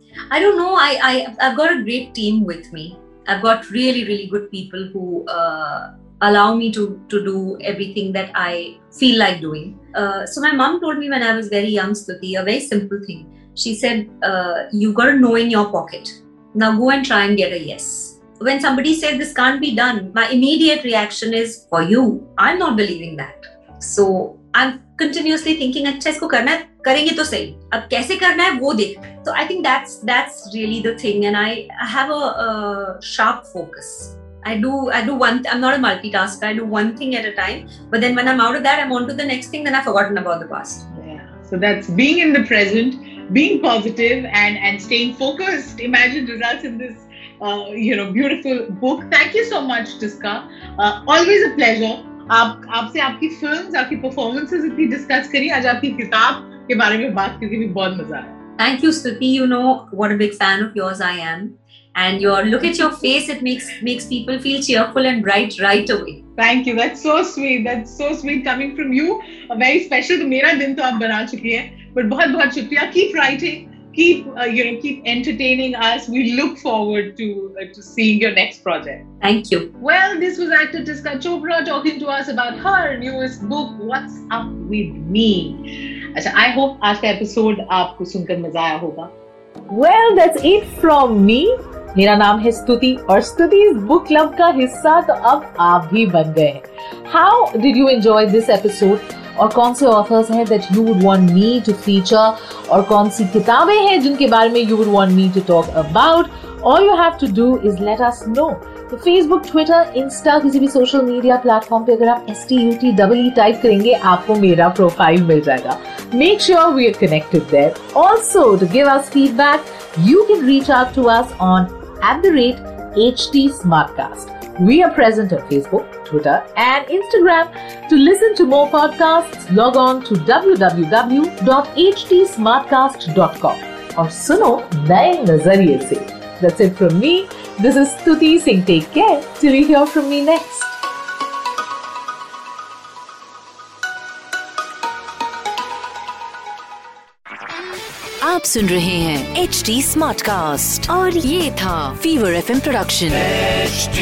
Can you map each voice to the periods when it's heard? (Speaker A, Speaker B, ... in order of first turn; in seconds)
Speaker A: 0.3-40.8, 58.6-66.2, 79.2-79.7
Speaker B: 40.9-58.4, 66.4-79.0, 79.8-85.6, 86.1-89.1
Speaker C: 89.7-140.8
Speaker D: 148.2-153.5